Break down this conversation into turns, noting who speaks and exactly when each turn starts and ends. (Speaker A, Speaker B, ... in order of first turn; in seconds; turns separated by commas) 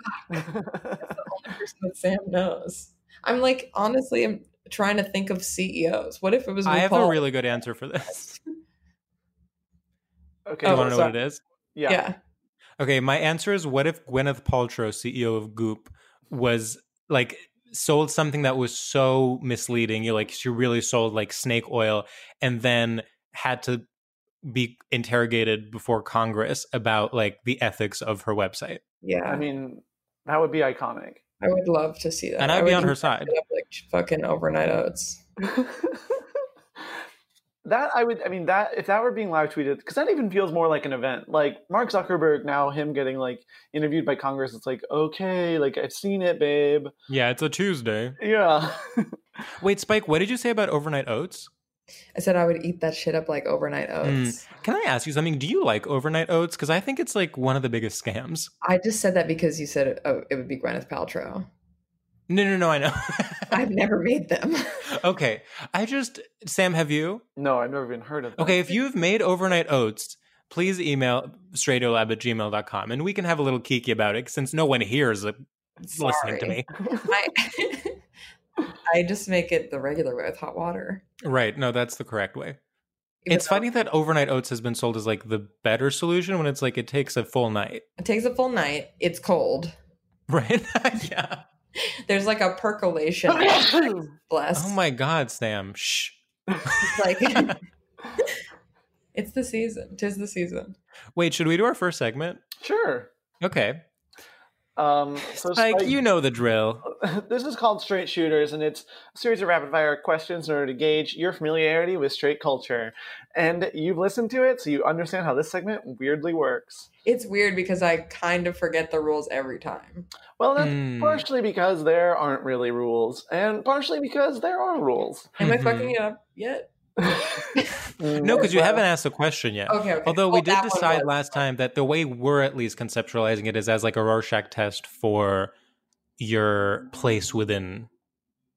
Speaker A: 0.3-1.1, Speaker B: 1.0-7.2, Speaker C: 6.6-8.4, Speaker A: 10.4-11.2, Speaker C: 10.6-11.4, Speaker B: 10.6-11.2, Speaker A: 11.8-12.0, Speaker B: 11.9-12.2, Speaker C: 12.8-23.9, Speaker C: 24.4-28.8, Speaker B: 29.0-29.4, Speaker A: 29.2-31.2, Speaker B: 31.4-35.2, Speaker C: 32.4-33.4, Speaker A: 35.5-36.2, Speaker A: 37.6-46.9, Speaker C: 47.1-48.2, Speaker A: 48.2-49.2, Speaker C: 49.6-51.5, Speaker B: 52.1-54.4, Speaker C: 54.0-58.5, Speaker B: 58.6-61.5, Speaker C: 62.3-63.6, Speaker B: 63.5-64.8, Speaker C: 64.9-67.2, Speaker A: 67.4-68.8, Speaker C: 68.4-75.4, Speaker B: 75.8-78.0, Speaker C: 75.9-76.7, Speaker B: 78.9-81.0, Speaker C: 81.2-82.6, Speaker B: 83.2-83.6, Speaker C: 83.3-87.8, Speaker B: 88.0-89.7, Speaker C: 90.3-91.4, Speaker B: 92.1-94.8, Speaker A: 93.3-94.1, Speaker C: 94.5-96.9, Speaker B: 96.8-97.6, Speaker B: 99.1-100.8, Speaker C: 101.2-102.4, Speaker A: 102.6-103.1, Speaker C: 103.4-103.8, Speaker A: 104.8-106.0, Speaker C: 105.3-106.8, Speaker A: 106.8-116.9, Speaker B: 117.0-120.1, Speaker A: 120.4-125.3, Speaker C: 120.6-121.2, Speaker B: 125.4-127.7, Speaker C: 125.4-126.0, Speaker A: 127.0-128.8, Speaker C: 128.2-135.5, Speaker B: 129.7-131.4, Speaker C: 136.2-137.9